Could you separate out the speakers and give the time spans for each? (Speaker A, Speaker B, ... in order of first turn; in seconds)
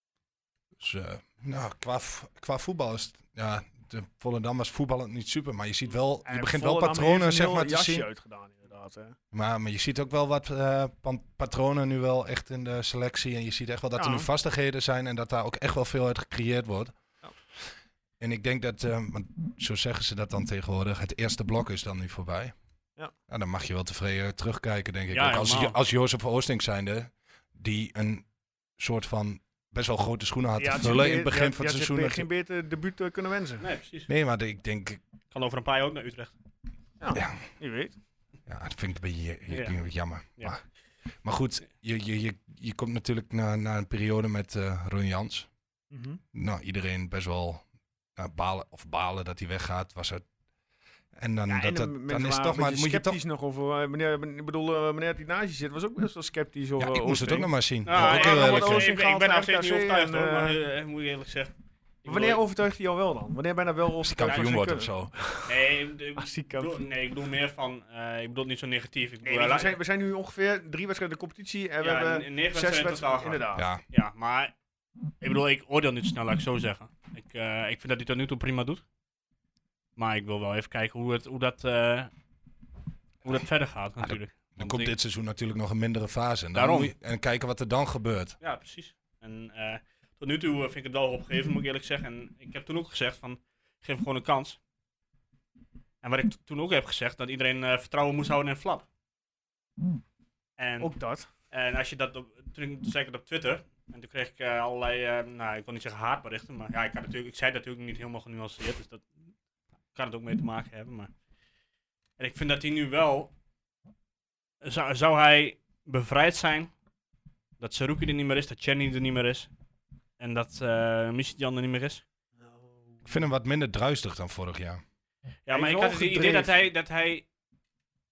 Speaker A: 0.8-8.1, 9.3-16.9, 18.2-22.6, 23.3-28.3, 28.8-32.3, 34.1-35.0, 37.1-37.4, 38.5-40.6, 41.2-45.5, 46.3-47.6, 48.2-50.2, 51.1-53.2, 56.8-58.9, 64.0-65.1, 73.6-73.8, 84.0-88.4, 123.0-124.8
Speaker B: 6.2-9.2, 14.0-14.3, 30.6-33.6, 37.0-38.0, 45.9-46.2, 51.5-60.6, 62.1-65.6, 66.2-66.8, 69.2-73.7, 100.8-101.3, 122.4-123.2, 125.5-126.5
Speaker C: 25.1-25.8, 33.6-34.1, 35.3-36.3, 39.5-39.8, 57.9-61.5, 62.0-62.4, 65.5-69.8, 71.8-74.5, 75.2-78.8, 80.0-82.1, 83.2-84.9, 86.5-86.9, 88.4-94.6, 96.0-98.9, 100.6-100.9, 101.5-109.1, 109.9-111.1, 112.2-113.3, 114.6-116.7, 117.6-119.5, 120.2-122.0, 125.5-127.2